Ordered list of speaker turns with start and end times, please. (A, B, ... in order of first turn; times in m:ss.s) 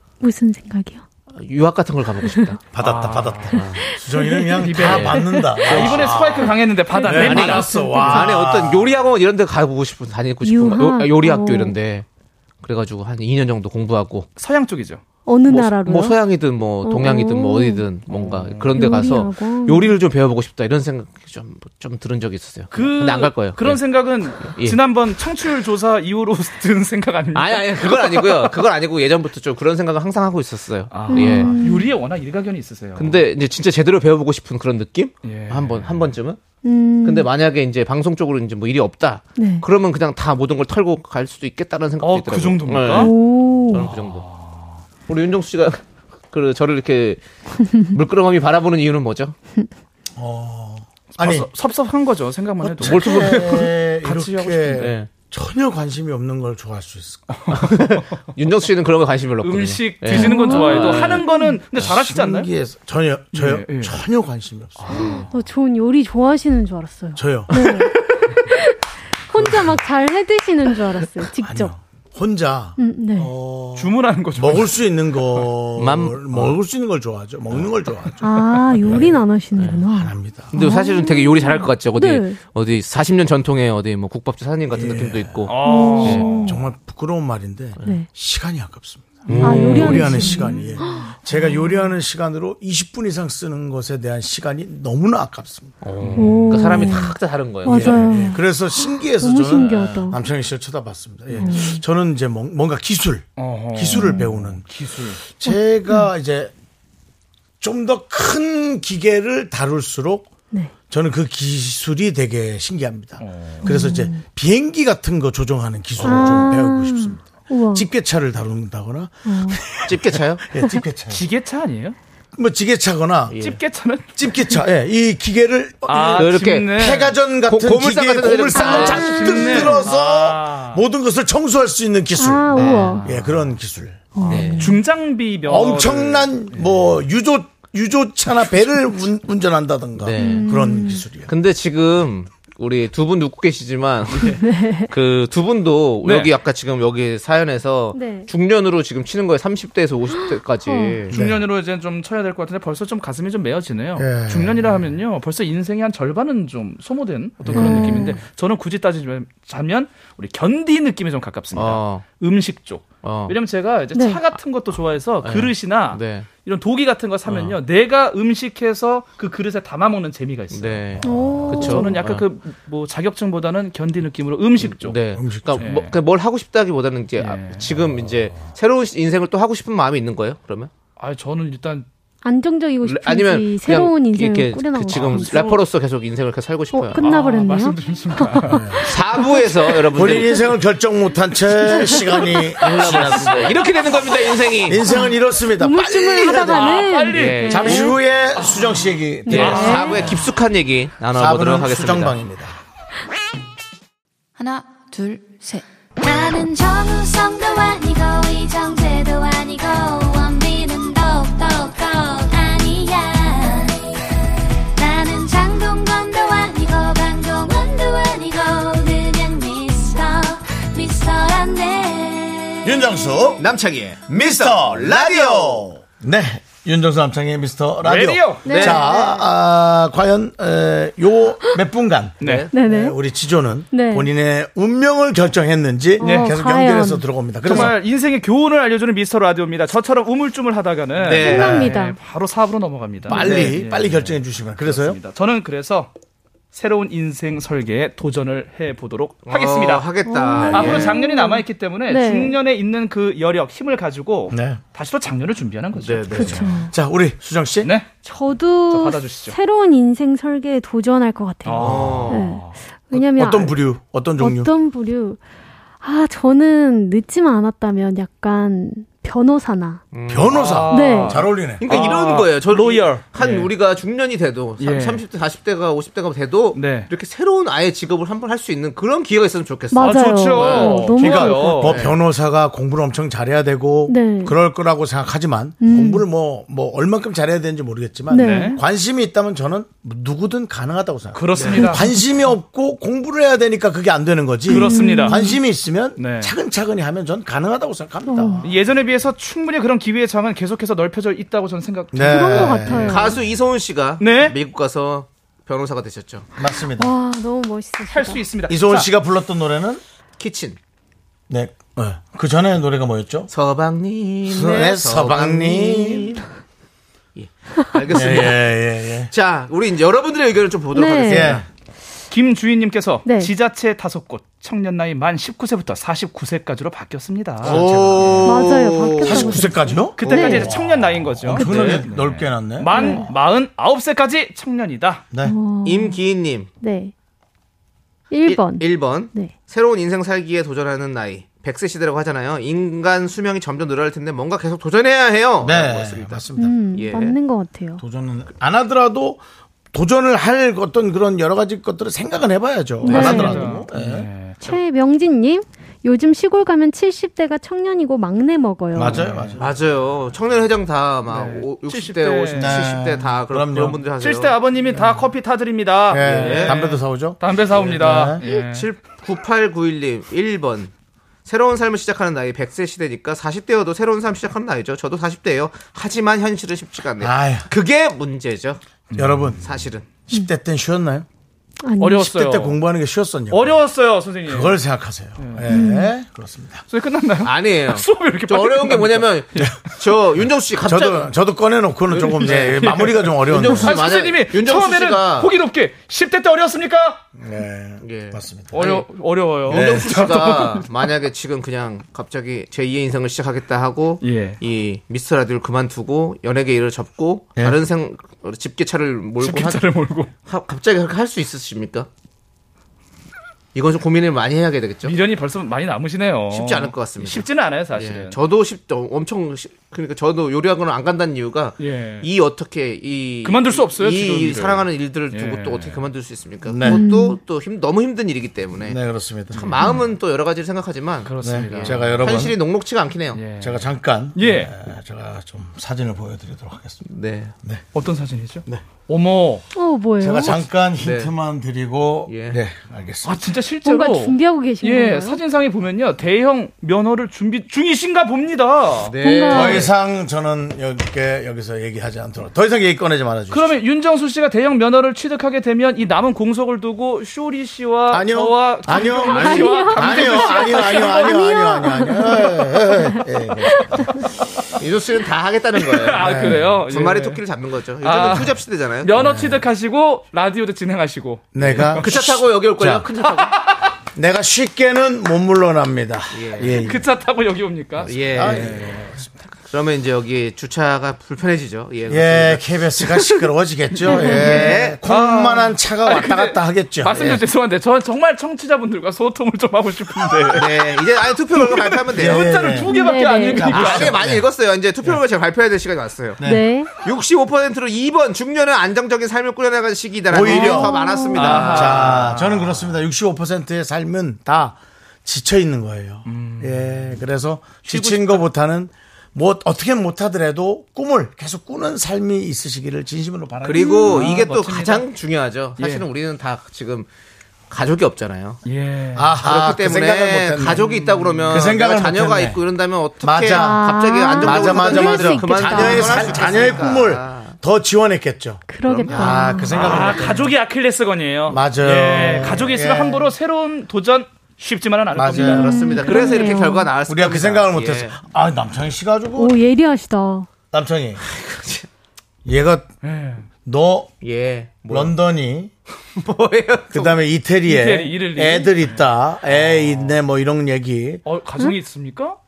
0:00.2-0:01.0 A
0:01.3-0:02.6 B
0:02.7-0:06.5 C
0:02.8-0:03.6 D
0:03.5-0:03.8 B
0:03.8-0:04.5 A
0:04.6-0:08.2 D
0:04.8-0:06.2 B
0:05.2-0:05.5 A
0:06.5-0:08.0 A
0:07.0-0:08.9 C
0:07.1-0:12.0 B
0:10.4-0:11.7 A
0:12.6-0:14.3 B
0:14.4-0:15.0 D
0:15.2-0:16.2 A
0:15.5-0:23.8 B
0:16.8-0:17.9 A
0:18.1-0:18.8 D
0:18.7-0:20.0 A
0:22.7-0:28.6 D
0:24.4-0:24.8 B
0:27.3-0:31.5 B
0:30.9-0:33.2 D
0:31.1-0:31.9 A
0:33.0-0:36.4 B
0:35.2-0:36.1 D
0:36.6-0:37.3 A
0:37.0-0:43.2 B
0:39.4-0:39.6 A
0:42.0-0:43.2 D
0:42.9-0:43.9 A
0:43.7-0:44.2 B
0:43.8-0:44.8 D
0:45.1-0:49.4 B
0:50.2-0:51.5 C
0:51.1-0:54.9 D
0:52.6-0:57.5 C
0:52.8-0:53.7 B
0:54.8-0:55.1 B
0:57.3-0:58.2 D
0:57.5-1:01.2 B
0:59.4-1:02.5 D
1:00.1-1:01.6 A
1:01.7-1:05.0 C
1:03.3-1:04.0 D
1:04.8-1:05.3 D
1:04.9-1:08.8 A
1:07.2-1:07.6 C
1:09.3-1:11.7 A
1:09.3-1:09.8 C
1:11.4-1:19.2 C
1:12.8-1:13.3 A
1:13.7-1:15.4 D
1:15.8-1:16.5 B
1:18.2-1:22.4 A
1:19.9-1:20.5 C
1:20.5-1:26.3 B
1:24.7-1:25.5 C
1:25.4-1:26.6 D
1:25.6-1:26.6 A
1:26.4-1:35.8 C
1:27.8-1:28.1 A
1:29.2-1:30.4 B
1:29.4-1:31.8 A
1:29.4-1:30.6 D
1:35.8-1:38.1 B
1:36.0-1:36.8 D
1:36.2-1:40.2 A
1:37.7-1:44.6 C
1:41.4-1:41.8 A
1:43.4-1:45.2 D
1:45.2-1:46.5 C
1:47.6-1:50.3 C
1:50.9-2:01.2 C
1:53.2-1:53.8 D
1:53.6-1:54.2 A
1:56.0-1:56.5 B
1:56.0-1:57.9 A
1:59.2-1:59.6 A
1:59.8-2:00.4 B
2:01.1-2:02.0 D
2:02.4-2:03.4 C
2:03.3-2:03.6 B
2:03.4-2:04.3 D
2:04.2-2:14.2 C
2:05.9-2:07.2 D
2:06.2-2:06.7 B
2:07.4-2:09.2 B
2:08.7-2:10.8 D
2:08.7-2:09.9 A
2:12.2-2:13.0 A
2:12.5-2:13.0 B
2:12.6-2:13.5 D
2:14.1-2:14.8 A
2:14.2-2:14.8 B
2:14.3-2:16.9 D
2:15.4-2:21.3 C
2:20.0-2:20.6 B
2:20.2-2:21.0 A
2:21.2-2:24.4 B
2:24.1-2:24.4 D
2:24.4-2:24.9 A
2:24.9-2:31.1 B
2:26.0-2:26.3 D
2:27.9-2:28.3 A
2:30.6-2:31.0 A
2:31.1-2:50.9 D
2:31.1-2:31.4 C
2:34.0-2:34.8 C
2:37.4-2:38.2 B
2:37.4-2:37.8 C
2:37.5-2:38.2 A
2:41.5-2:42.0 B
2:43.0-2:43.3 B
2:43.9-2:44.2 A
2:45.2-2:46.3 B
2:47.3-2:47.6 B
2:50.5-2:52.2 B
2:51.0-2:51.5 C
2:51.0-2:52.0 A
2:51.5-2:55.0 D
2:54.6-3:00.7 B
2:55.2-2:55.7 C
2:55.6-2:56.0 D
2:57.2-2:57.8 D
3:01.0-3:01.8 D
3:02.2-3:05.6 A
3:02.8-3:07.0 B
3:06.7-3:09.6 A
3:07.0-3:09.2 D
3:08.5-3:08.8 C
3:08.8-3:10.4 B
3:09.9-3:13.6 C
3:11.7-3:12.4 A
3:12.6-3:14.9 B
3:12.7-3:14.2 D
3:14.6-3:16.8 C
3:14.8-3:17.9 A
3:16.2-3:20.2 D
3:17.1-3:17.9 B
3:17.5-3:19.8 C
3:19.3-3:20.1 A
3:19.3-3:22.2 B
3:21.1-3:22.6 C
3:24.4-3:33.8 E
3:34.8-3:42.8 E
3:42.6-3:43.4 C
3:43.4-3:45.8 B
3:44.1-3:57.8 C
3:47.8-3:48.7 D
3:48.4-3:49.2 A
3:48.5-3:48.8 B
3:52.2-3:52.5 D
3:52.2-3:52.5 B
3:52.5-3:53.0 A
3:53.7-3:54.1 A
3:56.0-3:57.7 A
3:56.0-3:56.3 D
3:57.4-4:05.9 D
4:01.0-4:01.7 B
4:01.2-4:02.0 A
4:03.1-4:05.0 C
4:03.1-4:03.6 B
4:06.5-4:09.9 D
4:09.2-4:10.9 B
4:10.0-4:12.4 A
4:10.4-4:10.8 C
4:10.4-4:16.6 D
4:14.3-4:14.6 C
4:15.7-4:16.5 B
4:16.1-4:16.7 A
4:16.7-4:17.7 C
4:17.6-4:17.9 D
4:18.0-4:23.6 A
4:18.7-4:19.4 D
4:21.4-4:22.6 D
4:21.6-4:22.3 B
4:22.9-4:24.5 C
4:24.2-4:25.2 A
4:25.8-4:29.8 A
4:29.9-4:30.7 B
4:30.1-4:31.6 C
4:30.3-4:33.5 D
4:30.7-4:31.2 A
4:31.6-4:41.0 B
4:34.6-4:35.0 D
4:36.5-4:36.9 D
4:39.7-4:41.7 A
4:39.8-4:41.8 D
4:41.0-4:58.5 C
4:41.5-4:42.0 B
4:43.9-4:44.3 A
4:45.6-4:46.0 A
4:48.1-4:48.6 A
4:48.2-4:48.6 D
4:51.1-4:51.9 D
4:51.6-4:51.9 A
4:54.5-4:55.2 D
4:54.5-4:55.4 A
4:56.0-4:56.3 D
4:58.0-4:58.4 A
4:58.4-5:03.0 D
5:01.9-5:02.9 C
5:02.0-5:03.2 A
5:02.8-5:06.3 B
5:04.0-5:04.3 D
5:06.4-5:06.9 C
5:06.7-5:08.2 A
5:07.9-5:08.9 D
5:08.5-5:09.8 C
5:10.2-5:10.6 B
5:11.3-5:13.3 C
5:13.3-5:16.2 B
5:14.2-5:16.2 C
5:17.2-5:18.5 B
5:17.9-5:19.1 C
5:19.1-5:21.4 B
5:20.7-5:21.4 A
5:21.1-5:21.4 C
5:22.1-5:28.3 D
5:23.0-5:23.3 A
5:27.4-5:33.1 C
5:27.4-5:29.5 B
5:28.2-5:30.5 A
5:29.9-5:35.0 D
5:30.0-5:30.5 B
5:31.4-5:31.6 A
5:31.4-5:31.8 B
5:32.7-5:33.1 A
5:35.2-5:36.0 A
5:35.6-5:36.5 B
5:36.6-5:36.9 A
5:38.1-5:39.3 A
5:38.2-5:47.2 B
5:45.4-5:46.6 C
5:46.4-5:47.8 A
5:47.8-5:49.2 C
5:49.7-5:54.1 C
5:52.8-5:54.4 D
5:52.8-5:53.5 A
5:54.4-5:59.0 A
5:58.7-5:59.5 C
5:58.8-5:59.4 D
5:59.4-6:04.4 B
6:01.1-6:02.7 D
6:02.4-6:03.8 C
6:03.9-6:08.7 D
6:05.9-6:08.2 C
6:06.0-6:06.6 B
6:08.2-6:10.7 B
6:11.2-6:18.6 B
6:17.0-6:17.5 C
6:18.9-6:19.3 D
6:18.9-6:19.4 C
6:19.4-6:19.9 B
6:20.1-6:21.0 C
6:21.6-6:22.0 A
6:21.8-6:22.6 D
6:22.0-6:23.6 C
6:23.3-6:24.6 D
6:24.2-6:26.6 C
6:25.2-6:25.5 D
6:25.5-6:25.9 A
6:26.7-6:29.5 D
6:27.2-6:31.1 B
6:30.6-6:33.8 C
6:31.9-6:35.3 B
6:32.1-6:37.0 D
6:37.2-6:38.6 C
6:37.8-6:38.9 B
6:38.5-6:40.7 D
6:39.4-6:49.6 B
6:39.5-6:39.9 C
6:44.0-6:44.4 D
6:49.2-6:50.1 D
6:50.2-6:51.9 B
6:53.5-6:55.0 B
6:54.8-6:58.2 D
6:56.3-7:08.8 B
7:01.6-7:02.1 D
7:03.2-7:05.8 D
7:06.4-7:06.8 C
7:06.6-7:07.2 A
7:08.6-7:09.6 C
7:09.3-7:13.2 B
7:09.4-7:09.7 D
7:11.0-7:12.1 D
7:11.2-7:12.4 C
7:13.1-7:14.5 D
7:13.4-7:16.8 C
7:16.8-7:17.3 B
7:17.7-7:19.4 D
7:19.5-7:20.4 A
7:20.0-7:23.2 C
7:20.8-7:21.1 B
7:22.1-7:22.4 B
7:23.0-7:29.0 D
7:23.6-7:25.2 A
7:28.8-7:29.7 B
7:29.0-7:29.7 A
7:29.3-7:33.5 C
7:33.3-7:41.2 D
7:37.9-7:44.0 C
7:38.8-7:43.9 A
7:44.6-7:49.0 B
7:45.6-7:47.2 D
7:46.0-7:46.5 C
7:47.8-7:52.1 D
7:48.9-7:49.4 C
7:51.3-7:52.9 C
7:51.6-7:53.4 B
7:53.0-7:53.7 D
7:53.9-7:56.8 C
7:56.1-7:56.6 B
7:56.6-7:58.7 D
7:57.8-7:58.6 B
7:57.8-7:59.2 C
7:59.5-8:03.0 B
8:01.9-8:07.2 C
8:03.8-8:14.0 D
8:03.9-8:04.8 B
8:04.0-8:04.4 A
8:10.3-8:12.4 B
8:12.0-8:12.8 C
8:12.6-8:13.5 A
8:13.3-8:14.2 C
8:13.5-8:16.2 B
8:16.2-8:16.5 C
8:16.2-8:16.7 A
8:16.8-8:22.2 B
8:20.1-8:20.8 C
8:20.2-8:21.5 A
8:21.1-8:22.5 D
8:21.5-8:34.1 C
8:26.0-8:26.9 D
8:27.6-8:28.2 D
8:33.4-8:36.9 B
8:33.8-8:34.9 D
8:35.6-8:35.8 D
8:37.5-8:38.4 B
8:38.4-8:39.2 D
8:38.9-8:40.6 C
8:39.2-8:47.4 B
8:40.6-8:41.4 D
8:41.3-8:42.4 C
8:43.0-8:50.3 C
8:43.3-8:46.3 A
8:48.5-8:49.7 A
8:48.6-8:49.4 B
8:49.5-8:56.2 D
8:51.3-8:53.1 C
8:54.9-8:55.6 C
8:55.1-8:58.0 B
8:55.3-8:56.7 A
8:56.9-8:59.4 C
8:59.2-9:00.3 A
9:00.5-9:01.0 C
9:01.0-9:01.7 B
9:02.2-9:02.7 C
9:02.8-9:03.3 D
9:03.4-9:03.9 C
9:04.0-9:04.9 B
9:04.7-9:05.5 C
9:06.0-9:07.0 B
9:06.7-9:11.0 C
9:07.4-9:08.8 D
9:09.4-9:09.9 B
9:11.0-9:12.2 D